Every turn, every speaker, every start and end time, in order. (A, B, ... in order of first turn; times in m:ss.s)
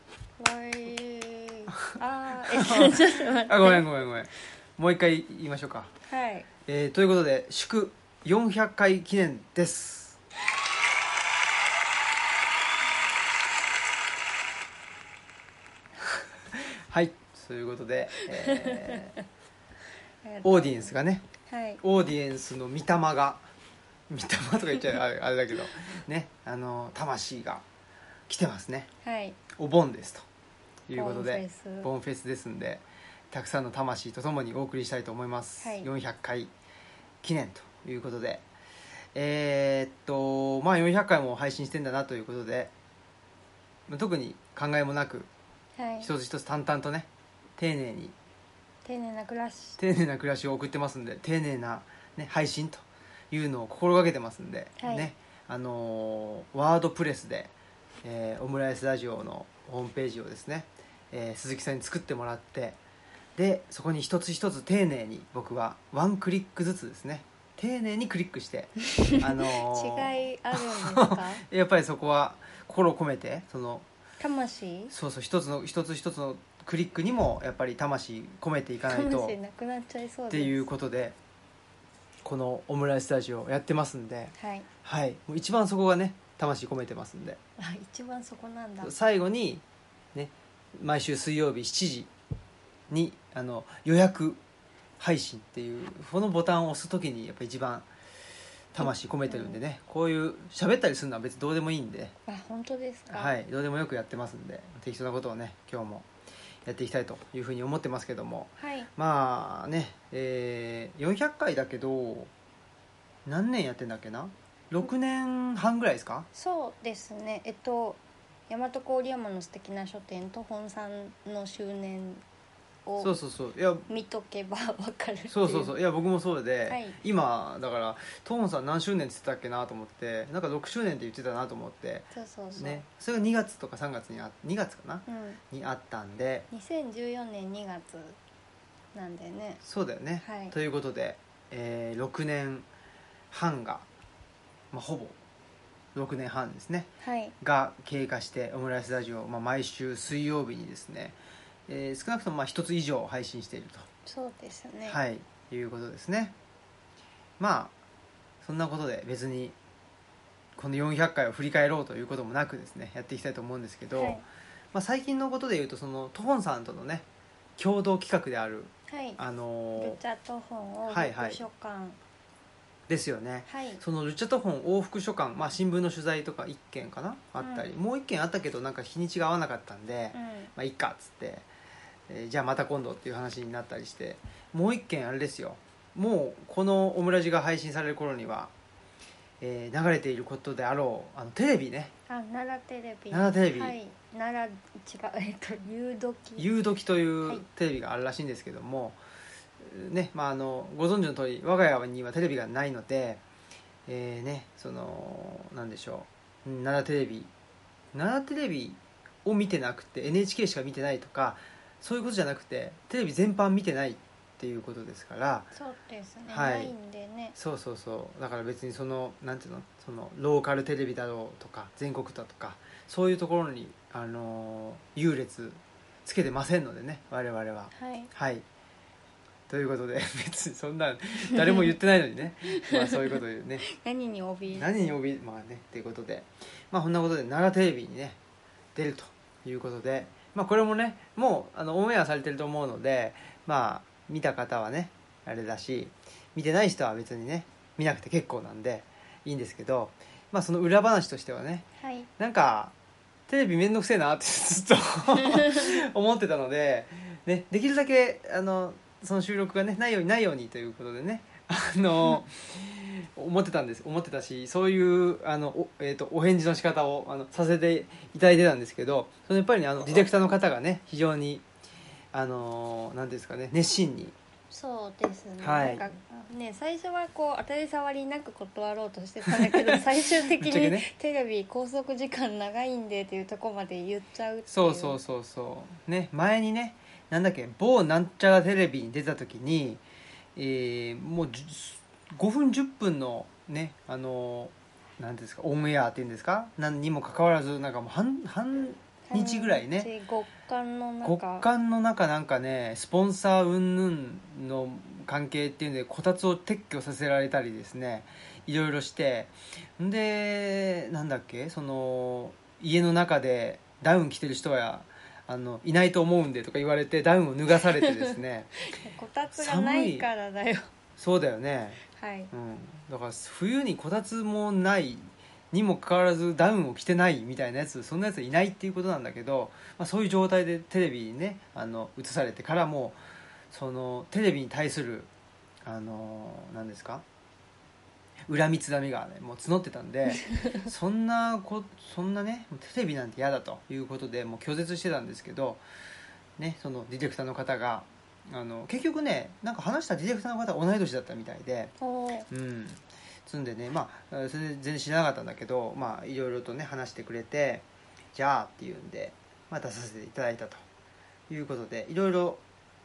0:00.4-0:03.8 A
0:02.4-0:05.9 B
0:06.1-0:06.5 A
0:06.7-0:10.2 B
0:16.1-0:19.2 B
0:18.4-0:19.1 A
0:20.2-0:20.9 A
0:20.4-0:21.2 B
0:21.5-0:21.8 A
0:21.8-0:23.4 B
0:24.1-0:27.6 B
0:28.3-0:28.9 B
0:29.0-0:29.4 A
0:29.5-0:30.3 B
0:30.9-0:36.5 B
0:30.9-0:31.9 A
0:35.6-0:35.9 A
0:37.2-0:38.4 B
0:39.1-0:42.7 B
0:43.9-0:45.3 B
0:45.8-0:46.1 A
0:46.0-0:48.2 B
0:48.8-0:49.8 A
0:49.8-1:02.8 B
0:54.8-0:55.1 A
1:03.4-1:13.9 B
1:09.0-1:11.4 A
1:14.2-1:14.9 A
1:14.9-1:19.4 B
1:18.9-1:20.7 A
1:20.3-1:21.2 B
1:22.2-1:27.4 B
1:24.4-1:24.7 A
1:27.6-1:28.9 A
1:28.8-1:32.1 B
1:32.9-1:34.4 B
1:35.0-1:37.9 B
1:38.7-1:42.1 B
1:38.8-1:39.6 A
1:42.3-1:43.4 A
1:43.1-1:46.1 B
1:46.7-1:52.3 B
1:48.6-1:48.9 A
1:53.3-1:56.3 B
1:56.4-2:02.2 A
2:02.9-2:03.1 A
2:03.0-2:03.9 B
2:03.9-2:05.7 A
2:05.3-2:16.5 B
2:06.7-2:07.0 A
2:12.1-2:12.8 A
2:15.1-2:15.4 A
2:16.5-2:18.2 A
2:19.0-2:19.6 A
2:19.6-2:22.7 B
2:20.2-2:20.6 A
2:23.3-2:23.9 B
2:24.7-2:25.2 B
2:26.0-2:26.9 B
2:27.0-2:27.4 A
2:27.4-2:31.2 B
2:31.7-2:33.9 B
2:34.1-2:35.0 A
2:34.9-2:36.3 B
2:37.4-2:37.7 B
2:38.4-2:39.6 B
2:40.6-2:44.2 B
2:44.0-2:44.2 A
2:44.7-2:47.0 B
2:47.6-2:50.0 B
2:48.9-2:49.2 A
2:49.8-2:52.0 A
2:50.9-2:51.4 B
2:52.9-3:01.5 B
2:53.5-2:53.8 A
2:57.4-2:57.7 A
3:00.1-3:00.5 A
3:02.1-3:08.5 B
3:09.4-3:11.9 B
3:12.1-3:16.5 A
3:13.1-3:13.8 B
3:16.4-3:19.0 B
3:19.6-3:23.2 B
3:23.9-3:27.3 B
3:27.9-3:35.5 B
3:35.5-3:37.4 A
3:36.3-3:36.7 B
3:37.4-3:48.4 B
3:47.7-3:48.1 A
3:49.5-3:53.6 B
3:51.4-3:51.7 A
3:52.5-3:54.9 A
3:54.5-3:58.2 B
3:58.8-4:11.7 B
4:11.8-4:12.1 A
4:12.2-4:12.7 B
4:13.3-4:31.4 B
4:32.1-4:34.2 B
4:34.5-4:45.0 A
4:35.4-4:35.9 B
4:39.2-4:40.8 B
4:44.5-4:49.8 B
4:50.4-4:59.9 B
4:59.1-5:01.5 A
5:01.0-5:18.5 B
5:17.8-5:18.2 A
5:18.7-5:20.7 A
5:19.3-5:20.1 B
5:21.0-5:21.8 B
5:21.9-5:22.3 A
5:22.3-5:33.0 B
5:33.5-5:35.1 B
5:35.6-5:37.0 B
5:38.3-5:45.6 B
5:40.3-5:40.7 A
5:46.4-5:51.7 B
5:51.8-5:52.3 A
5:52.3-6:00.6 B
6:01.3-6:02.4 B